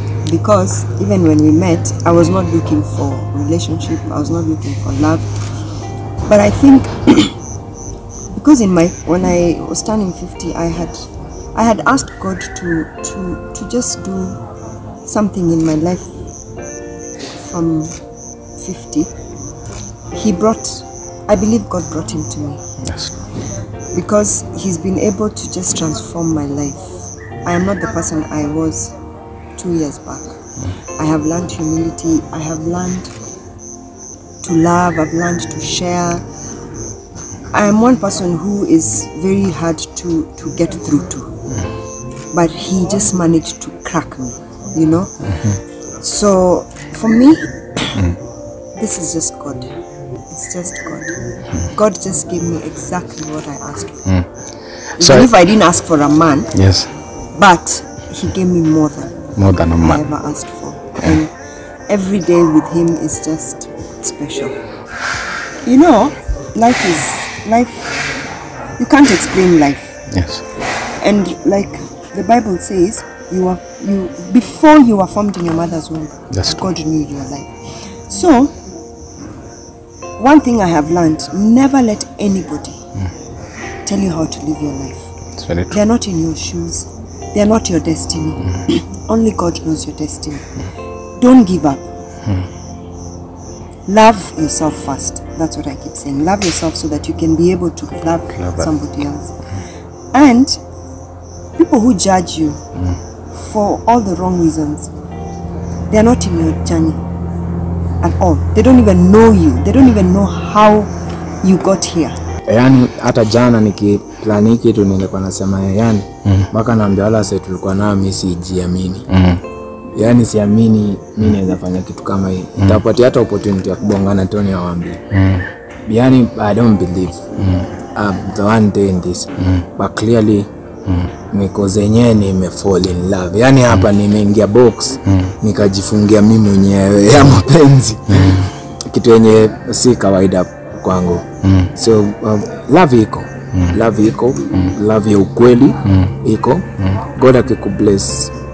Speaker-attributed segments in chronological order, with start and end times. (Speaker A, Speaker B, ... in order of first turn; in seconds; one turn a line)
Speaker A: 0.2-5.4
Speaker A: 6.2-7.4
Speaker A: 8.3-14.4
Speaker A: 15.0-16.1
Speaker A: 17.4-18.0
Speaker A: 18.6-19.1
Speaker A: 20.1-22.6
Speaker A: 23.9-28.9
Speaker A: 29.6-30.4
Speaker A: 31.0-33.1
Speaker A: 34.4-36.2
Speaker A: 37.5-41.4
Speaker A: 42.3-48.2
Speaker A: 48.8-49.7
Speaker A: 50.3-54.2
Speaker A: 55.0-56.7
Speaker B: 56.6-56.9
Speaker A: 57.3-61.3
Speaker B: 59.4-60.0
Speaker A: 61.9-64.6
Speaker A: 65.6-68.0
Speaker A: 68.8-70.0
Speaker B: 70.1-70.4
Speaker A: 70.9-78.5
Speaker A: 80.2-82.8
Speaker A: 83.8-90.5
Speaker A: 91.2-91.8
Speaker A: 93.9-99.4
Speaker A: 100.1-100.6
Speaker A: 101.6-102.6
Speaker A: 103.3-104.9
Speaker A: 105.9-107.0
Speaker A: 108.0-110.9
Speaker A: 111.4-112.2
Speaker C: 112.5-119.2
Speaker B: 119.1-119.4
Speaker C: 119.9-125.0
Speaker C: 125.9-127.2
Speaker C: 127.9-130.5
Speaker C: 131.3-148.3
Speaker B: 137.9-138.4
Speaker B: 146.8-147.1